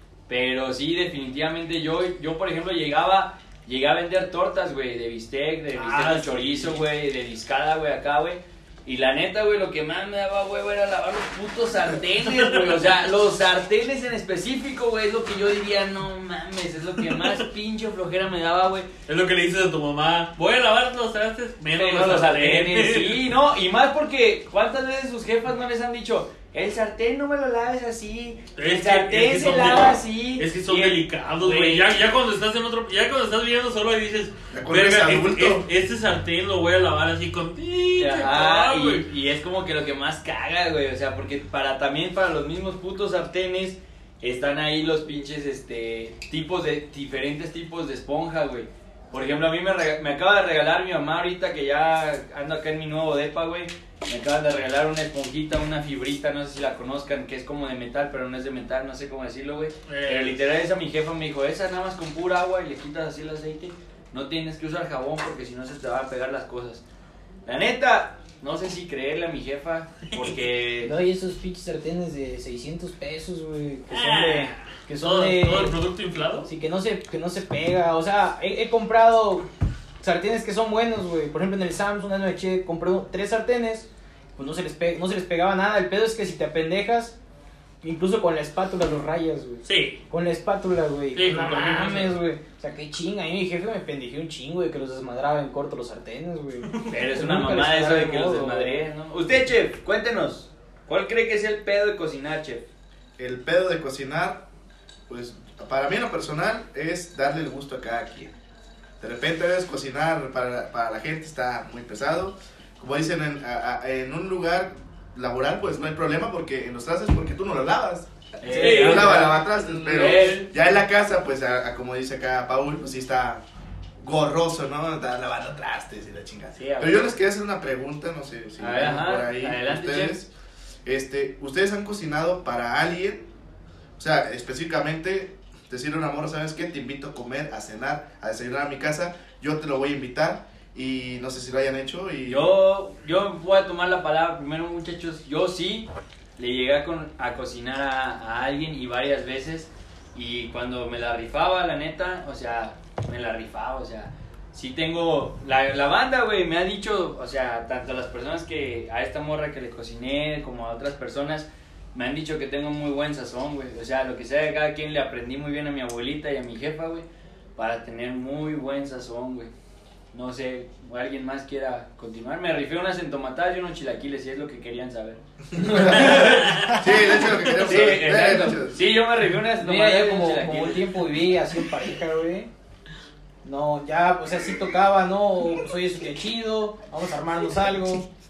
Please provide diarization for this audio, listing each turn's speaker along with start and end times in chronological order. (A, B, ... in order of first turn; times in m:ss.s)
0:00.3-0:18.9 A
0:05.7-0:06.8 B
0:12.3-0:13.0 B
0:19.1-0:23.2 B
0:21.8-0:32.0 A
0:28.6-0:39.0 B
0:34.5-0:35.7 C
0:38.0-1:06.8 A
0:59.9-1:00.4 B
1:07.5-1:11.0 A
1:10.8-1:15.8 D
1:13.9-1:16.5 B
1:16.4-1:19.5 D
1:20.0-1:27.2 D
1:27.8-1:38.8 D
1:29.7-1:30.0 B
1:31.2-1:32.2 B
1:36.9-1:42.7 A
1:43.2-1:44.4 C
1:45.1-1:48.3 C
1:49.0-1:58.1 C
1:58.4-2:00.5 A
1:58.4-1:59.3 D
1:58.6-2:00.5 B
1:58.6-2:03.4 C
2:04.0-2:10.3 C
2:06.6-2:07.1 A
2:08.6-2:10.2 A
2:10.8-2:13.3 C
2:14.0-2:22.4 C
2:22.3-2:49.5 A
2:50.1-2:56.8 A
2:55.6-2:56.2 D
2:55.6-2:58.8 C
2:55.9-2:57.6 B
2:57.6-3:01.0 A
2:59.6-3:02.5 D
3:03.4-3:08.1 D